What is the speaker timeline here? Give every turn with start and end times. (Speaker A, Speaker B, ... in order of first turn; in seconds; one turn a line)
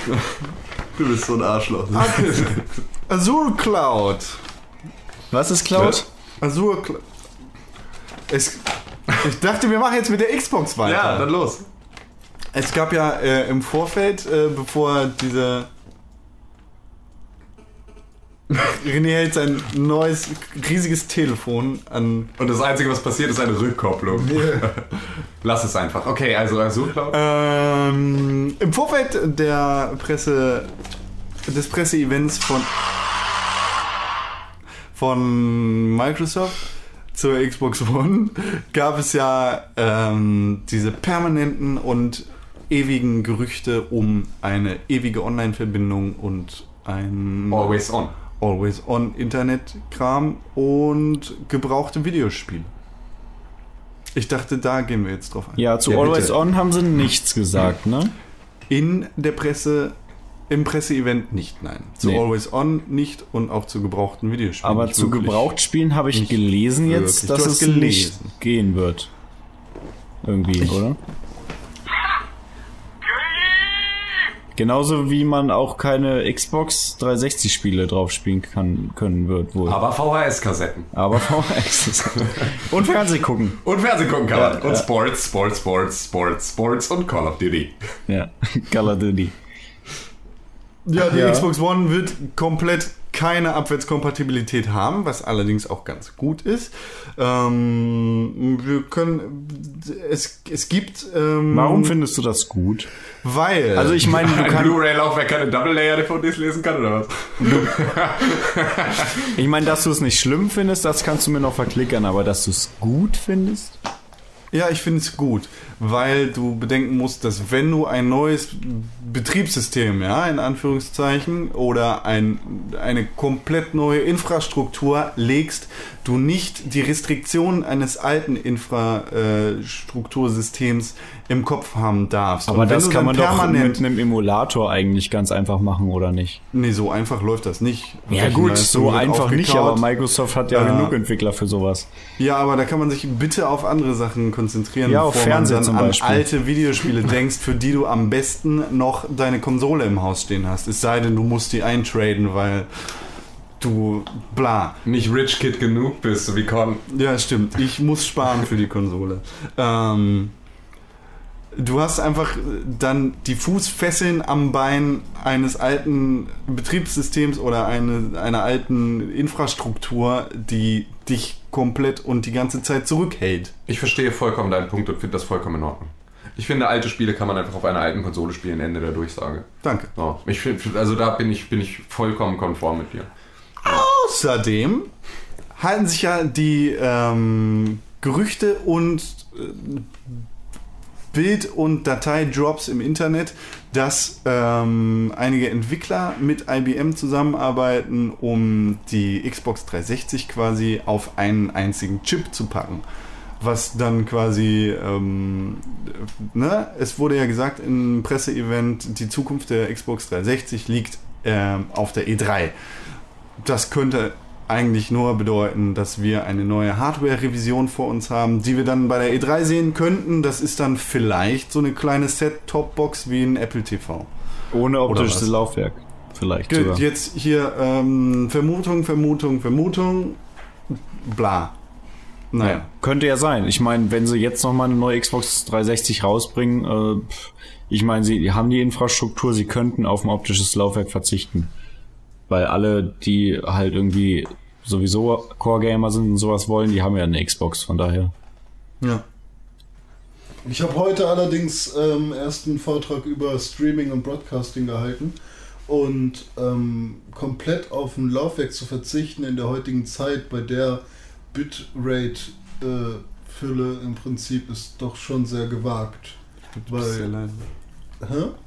Speaker A: 0.9-2.7
Speaker B: 1.9-4.4
Speaker C: 5.3-6.0
Speaker B: 6.4-7.0
Speaker B: 8.3-11.3
Speaker A: 10.8-11.6
Speaker B: 12.5-15.7
Speaker B: 18.5-22.3
Speaker A: 22.4-27.2
Speaker D: 24.2-24.6
Speaker B: 27.1-30.7
Speaker B: 31.4-32.7
Speaker B: 34.9-36.6
Speaker B: 37.1-52.7
Speaker A: 47.5-48.1
Speaker B: 54.1-55.6
Speaker C: 55.6-58.1
Speaker A: 55.9-56.3
Speaker B: 58.7-60.0
Speaker B: 60.5-65.5
Speaker C: 64.6-69.1
Speaker B: 66.1-68.3
Speaker C: 70.2-71.0
Speaker C: 74.5-79.8
Speaker A: 79.7-80.9
Speaker C: 80.9-83.6
Speaker A: 82.2-83.0
Speaker A: 83.6-87.8
Speaker C: 84.3-84.9
Speaker C: 88.1-89.3
Speaker B: 90.8-102.0
Speaker C: 91.1-91.4
Speaker C: 101.5-102.9
Speaker B: 103.2-104.7
Speaker C: 103.8-104.8
Speaker A: 104.1-109.2
Speaker C: 109.3-113.8
Speaker B: 114.5-133.8
Speaker C: 132.5-136.4
Speaker B: 136.5-139.9
Speaker C: 138.1-141.9
Speaker B: 140.5-141.0
Speaker B: 142.2-154.8
Speaker C: 144.8-146.3
Speaker A: 154.8-156.8
Speaker B: 156.9-160.3
Speaker B: 161.5-173.5
Speaker A: 173.7-183.1
Speaker B: 179.6-179.9
Speaker B: 183.6-184.9
Speaker B: 185.6-190.2
Speaker B: 191.1-202.8
Speaker B: 203.4-212.5
Speaker B: 213.4-224.1
Speaker C: 224.5-226.8
Speaker B: 224.8-225.3
Speaker B: 226.5-230.2
Speaker B: 230.7-231.6
Speaker B: 232.3-232.7
Speaker C: 232.4-241.5
Speaker C: 242.3-248.1
Speaker D: 250.4-267.1
Speaker B: 266.6-267.4
Speaker D: 268.0-268.3